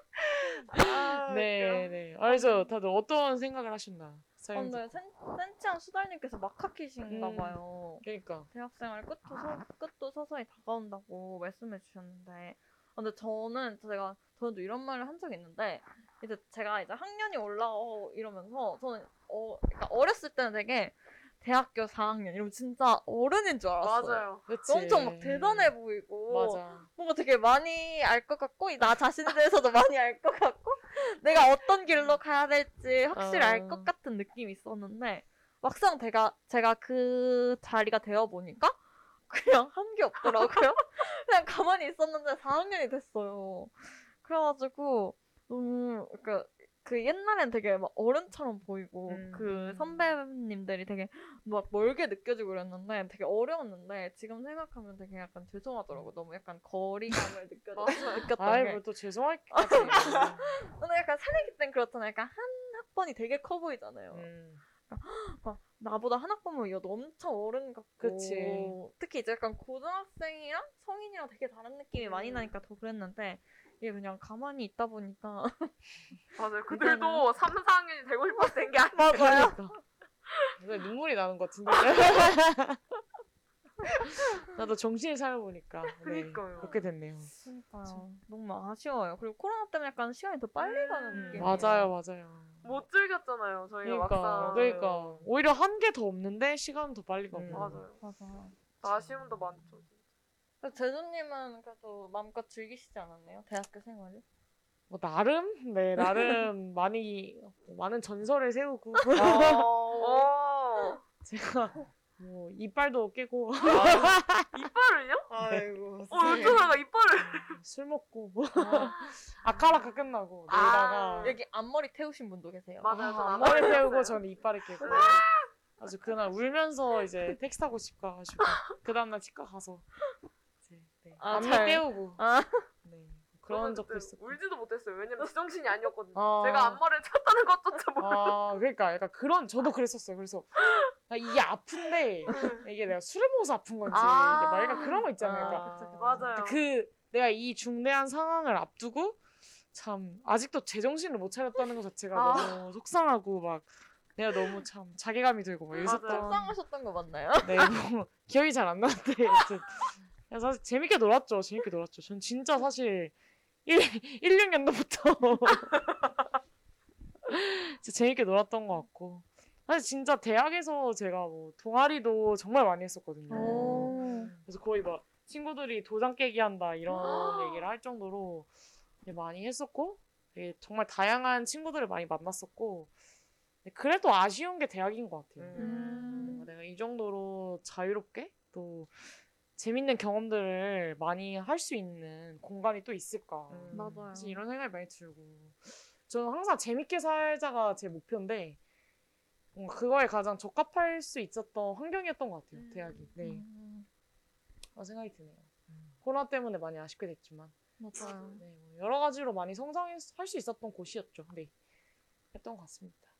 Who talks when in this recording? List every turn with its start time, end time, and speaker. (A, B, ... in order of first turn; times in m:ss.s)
0:00.7-0:05.0 A
0:00.8-0:01.9 B
0:02.3-0:02.7 C
0:04.5-0:38.8 C
0:07.1-0:08.5 A
0:23.8-0:24.4 D
0:24.5-0:25.7 A
0:26.3-0:26.9 A
0:33.1-0:33.9 A
0:39.3-0:58.8 C
0:49.1-0:50.1 A
0:57.8-0:58.3 D
0:58.4-1:00.6 A
0:59.5-1:04.3 C
1:04.1-1:04.6 A
1:04.9-1:15.7 C
1:08.0-1:08.8 A
1:12.1-1:12.5 D
1:16.4-1:19.5 D
1:16.7-1:17.2 C
1:18.4-1:19.7 C
1:19.0-1:19.8 A
1:20.6-1:22.8 A
1:24.1-1:27.3 A
1:26.0-1:26.7 D
1:27.4-1:31.9 C
1:30.6-1:31.7 D
1:31.1-1:32.8 A
1:32.6-1:35.2 D
1:33.8-1:37.8 A
1:34.4-1:34.9 B
1:37.3-1:37.8 B
1:37.5-1:38.0 D
1:38.0-1:38.5 C
1:38.8-1:40.0 D
1:40.6-1:44.2 C
1:44.9-1:49.6 A
1:49.1-1:50.3 B
1:50.0-1:51.0 D
1:51.2-1:54.5 A
1:53.6-1:55.3 D
1:53.7-1:54.2 B
1:55.3-1:56.7 B
1:56.1-1:57.6 D
1:56.2-1:56.5 A
1:57.2-2:01.4 A
1:58.6-1:58.9 C
1:58.7-1:59.1 D
2:00.5-2:01.4 D
2:01.2-2:03.9 C
2:02.8-2:04.2 D
2:02.9-2:05.2 A
2:04.8-2:05.5 D
2:05.8-2:09.9 A
2:10.7-2:12.2 A
2:11.2-2:12.6 C
2:12.8-2:14.4 A
2:13.5-2:18.4 D
2:16.1-2:16.8 A
2:18.0-2:29.2 A
2:23.9-2:26.6 D
2:23.9-2:24.2 C
2:25.2-2:26.3 C
2:29.7-2:36.6 A
2:32.1-2:32.6 D
2:35.7-2:37.7 C
2:35.8-2:36.3 D
2:37.4-2:46.1 A
2:47.2-2:58.5 A
2:53.3-2:54.3 C
2:53.3-2:54.4 B
2:56.9-2:57.6 D
2:59.0-3:02.9 A
3:03.6-3:18.6 A
3:05.4-3:06.2 B
3:05.6-3:06.5 C
3:05.6-3:06.3 D
3:13.5-3:14.1 B
3:13.7-3:14.4 C
3:19.5-3:23.4 A
3:22.5-3:23.1 D
3:23.2-3:23.8 C
3:24.7-3:25.5 A
3:26.0-3:27.5 A
3:27.8-3:28.4 C
3:28.4-3:31.5 A
3:32.3-3:33.1 A